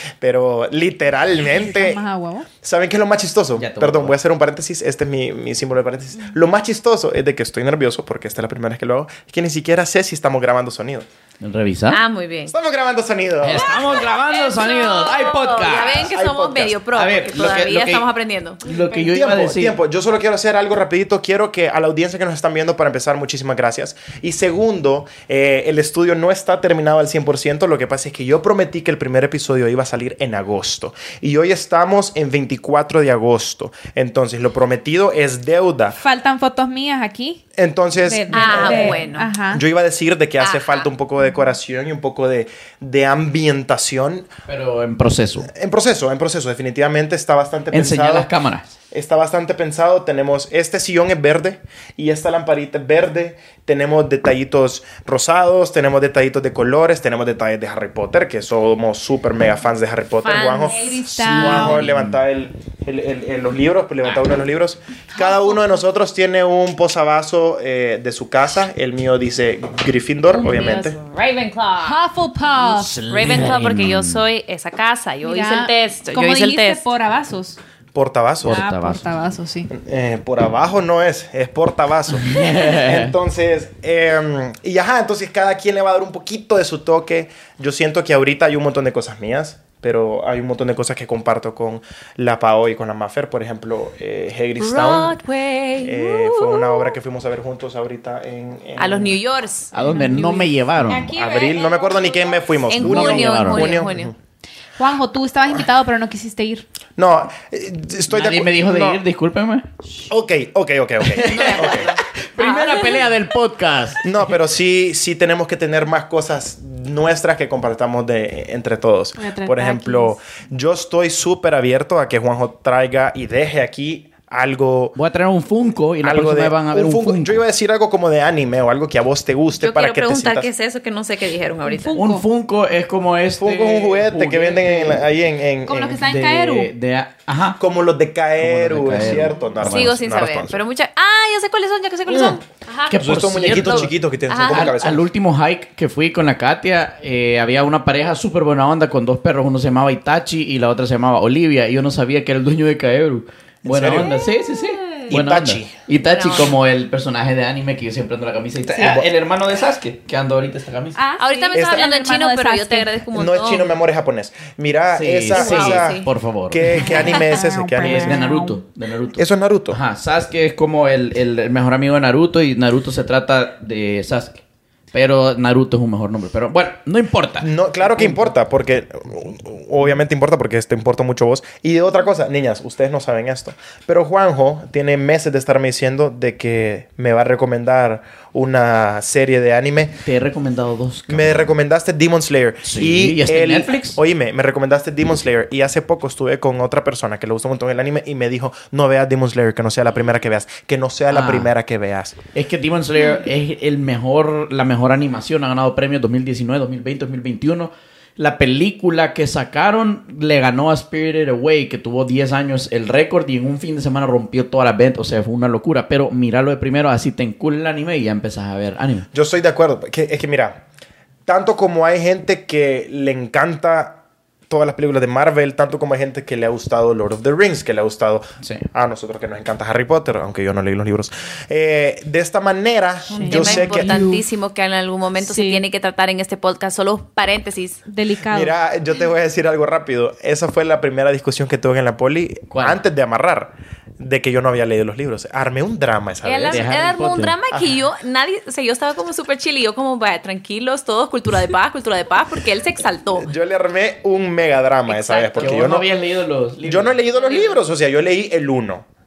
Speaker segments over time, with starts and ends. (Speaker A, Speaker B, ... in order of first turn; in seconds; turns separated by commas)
Speaker A: 0.2-2.0, Speaker B: 1.4-2.5, Speaker A: 2.6-11.1, Speaker C: 3.6-4.2, Speaker C: 11.4-12.0, Speaker D: 11.9-12.5, Speaker A: 12.5-13.9, Speaker C: 13.4-16.2, Speaker D: 13.7-18.6, Speaker A: 16.1-16.8, Speaker C: 16.9-18.1, Speaker C: 18.6-19.8, Speaker B: 18.7-19.1, Speaker A: 19.1-36.0, Speaker B: 36.0-37.4, Speaker A: 37.6-44.3, Speaker B: 38.0-39.6, Speaker D: 38.3-39.3, Speaker D: 40.4-40.9, Speaker C: 44.5-45.5, Speaker A: 45.5-48.3, Speaker C: 47.7-48.7, Speaker A: 48.9-71.0, Speaker D: 60.2-60.9, Speaker B: 60.5-61.8, Speaker C: 61.1-62.2, Speaker B: 65.2-65.6, Speaker D: 70.3-72.0, Speaker B: 71.8-73.0, Speaker C: 72.6-74.2, Speaker D: 73.1-76.8, Speaker B: 75.2-77.6, Speaker A: 77.9-78.6, Speaker C: 78.4-79.1, Speaker B: 78.4-79.7, Speaker A: 79.7-95.2, Speaker C: 82.1-83.2, Speaker D: 94.6-96.9, Speaker A: 95.8-99.2, Speaker D: 98.8-99.7, Speaker C: 99.7-101.1, Speaker B: 99.8-102.7, Speaker A: 101.1-104.1, Speaker D: 102.7-104.1, Speaker C: 102.8-103.7, Speaker B: 104.8-106.7, Speaker A: 107.0-109.0, Speaker C: 108.1-109.7, Speaker A: 110.1-111.9, Speaker C: 111.0-114.4, Speaker D: 111.2-113.0, Speaker A: 114.0-125.0, Speaker B: 119.2-120.2, Speaker C: 124.9-127.4, Speaker A: 126.0-130.5, Speaker D: 129.6-132.0, Speaker B: 131.7-132.2, Speaker C: 131.9-135.1, Speaker A: 133.4-136.0, Speaker B: 135.7-136.7, Speaker C: 136.0-137.6, Speaker A: 137.6-140.6, Speaker C: 138.4-140.0, Speaker D: 139.6-144.8, Speaker A: 142.1-142.4, Speaker C: 142.9-143.9, Speaker A: 142.9-145.1, Speaker C: 144.5-161.0, Speaker A: 153.6-154.1, Speaker B: 154.0-155.1, Speaker A: 155.1-155.8, Speaker D: 156.0-156.5, Speaker A: 158.8-159.1, Speaker B: 160.9-162.9, Speaker D: 161.2-163.7, Speaker A: 161.5-161.9, Speaker A: 163.1-168.3, Speaker C: 164.9-167.2, Speaker D: 165.3-166.1, Speaker B: 167.0-168.6, Speaker C: 167.8-174.4, Speaker A: 169.2-169.8, Speaker C: 174.9-178.3, Speaker A: 177.4-190.0, Speaker C: 190.0-191.5, Speaker A: 191.1-202.2, Speaker C: 192.7-194.0, Speaker C: 201.1-201.5, Speaker C: 202.3-219.1, Speaker A: 219.1-220.6, Speaker A: 221.3-233.9, Speaker C: 228.4-228.7, Speaker B: 233.1-234.2, Speaker D: 233.1-237.8, Speaker B: 235.2-235.6, Speaker B: 237.9-238.5, Speaker A: 238.3-246.7, Speaker C: 242.5-242.8, Speaker D: 246.2-253.3, Speaker C: 246.5-247.3, Speaker A: 247.5-247.8, Speaker A: 253.2-255.9, Speaker D: 254.9-255.7, Speaker C: 255.4-257.0, Speaker A: 256.6-258.9, Speaker D: 257.1-257.6